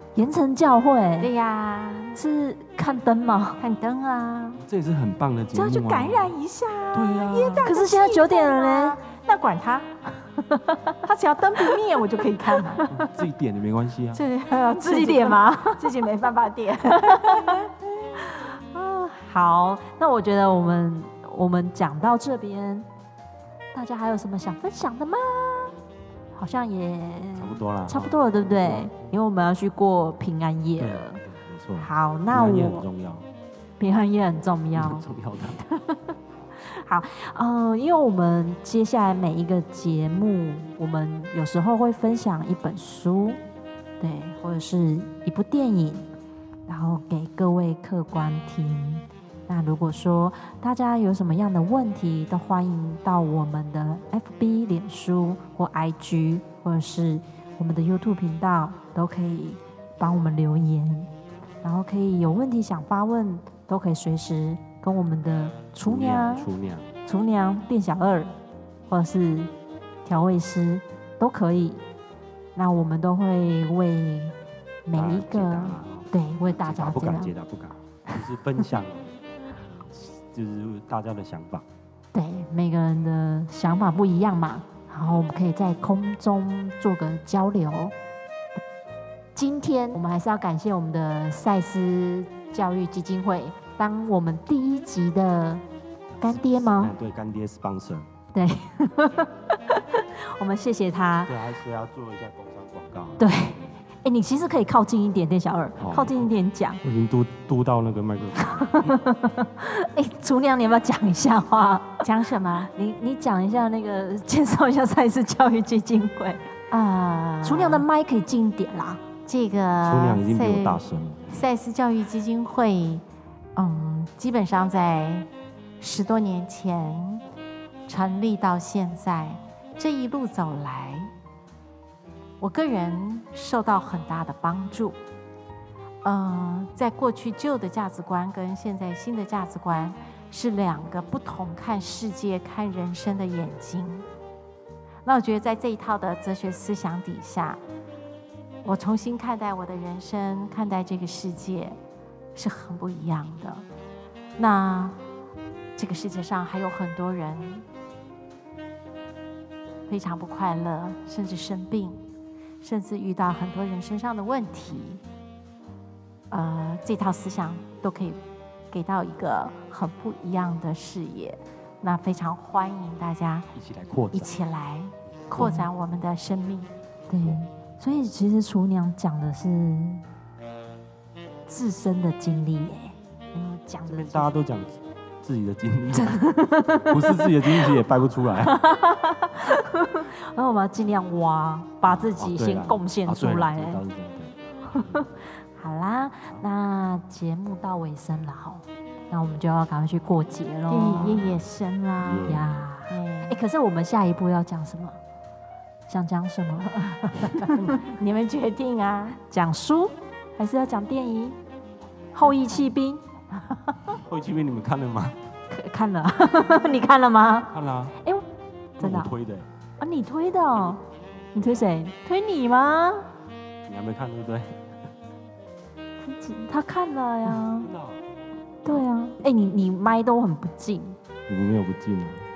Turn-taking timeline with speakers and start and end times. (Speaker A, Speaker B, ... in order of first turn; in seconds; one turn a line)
Speaker A: 0.1-1.3
Speaker B: 1.2-2.2
Speaker A: 2.1-3.6
Speaker B: 3.6-4.6
Speaker C: 4.6-6.3
Speaker B: 5.5-10.2
Speaker C: 6.9-7.7
Speaker A: 7.6-9.0
Speaker A: 10.5-11.0
Speaker B: 11.0-12.9
Speaker A: 12.5-13.1
Speaker C: 12.9-14.2
Speaker B: 14.1-18.3
Speaker A: 14.7-15.9
Speaker A: 16.9-17.6
Speaker A: 18.2-22.9
Speaker A: 23.7-25.7
Speaker A: 26.3-31.2
Speaker C: 27.4-29.1
Speaker C: 30.8-33.3
Speaker A: 31.8-32.9
Speaker A: 33.8-35.0
Speaker C: 34.7-35.6
Speaker A: 35.6-43.4
Speaker A: 44.0-46.1
Speaker A: 46.7-61.1
Speaker A: 61.6-66.5
Speaker C: 65.8-66.9
Speaker A: 67.0-68.4
Speaker A: 68.9-69.5
Speaker A: 70.0-71.8
Speaker A: 72.5-77.3
Speaker C: 74.9-79.1
Speaker C: 79.9-81.6
Speaker A: 82.1-87.9
Speaker A: 89.3-95.6
Speaker A: 96.2-96.9
Speaker C: 96.2-98.1
Speaker A: 98.3-101.3
Speaker C: 101.2-103.7
Speaker A: 103.2-106.8
Speaker C: 105.8-106.3
Speaker C: 106.8-109.0
Speaker A: 108.4-112.0
Speaker B: 112.0-112.7
Speaker A: 112.7-116.5
Speaker B: 116.7-117.8
Speaker A: 117.4-119.0
Speaker B: 119.3-123.0
Speaker C: 119.8-121.5
Speaker B: 123.5-125.3
Speaker B: 125.8-127.2
Speaker B: 127.9-131.1
Speaker B: 132.4-135.0
Speaker B: 136.0-144.1
Speaker B: 145.0-147.6
Speaker B: 148.6-151.8
Speaker B: 152.3-153.6
Speaker B: 154.4-155.0
Speaker B: 155.8-157.7
Speaker B: 159.9-162.0
Speaker B: 162.6-165.0
Speaker B: 166.3-168.2
Speaker B: 168.7-173.5
Speaker C: 173.5-174.3
Speaker B: 174.1-176.7
Speaker A: 175.3-175.7
Speaker A: 177.1-180.0
Speaker A: 181.5-184.3
Speaker C: 183.8-188.6
Speaker A: 185.9-187.7
Speaker A: 188.4-193.8
Speaker C: 191.8-195.1
Speaker A: 194.7-201.3
Speaker B: 200.7-202.3
Speaker C: 200.9-201.4
Speaker C: 202.0-202.7
Speaker A: 202.2-205.0
Speaker B: 202.9-203.4
Speaker A: 205.9-207.8
Speaker B: 207.2-209.2
Speaker A: 209.2-211.4
Speaker A: 212.1-213.0
Speaker C: 214.0-215.2
Speaker A: 215.5-218.2
Speaker C: 217.5-217.9
Speaker A: 218.8-219.1
Speaker C: 218.8-219.5
Speaker A: 219.8-220.8
Speaker C: 220.6-221.7
Speaker A: 221.3-222.2
Speaker B: 222.1-223.1
Speaker C: 223.7-224.6
Speaker A: 226.0-227.7
Speaker C: 227.5-228.0
Speaker A: 228.6-231.0
Speaker C: 231.3-232.2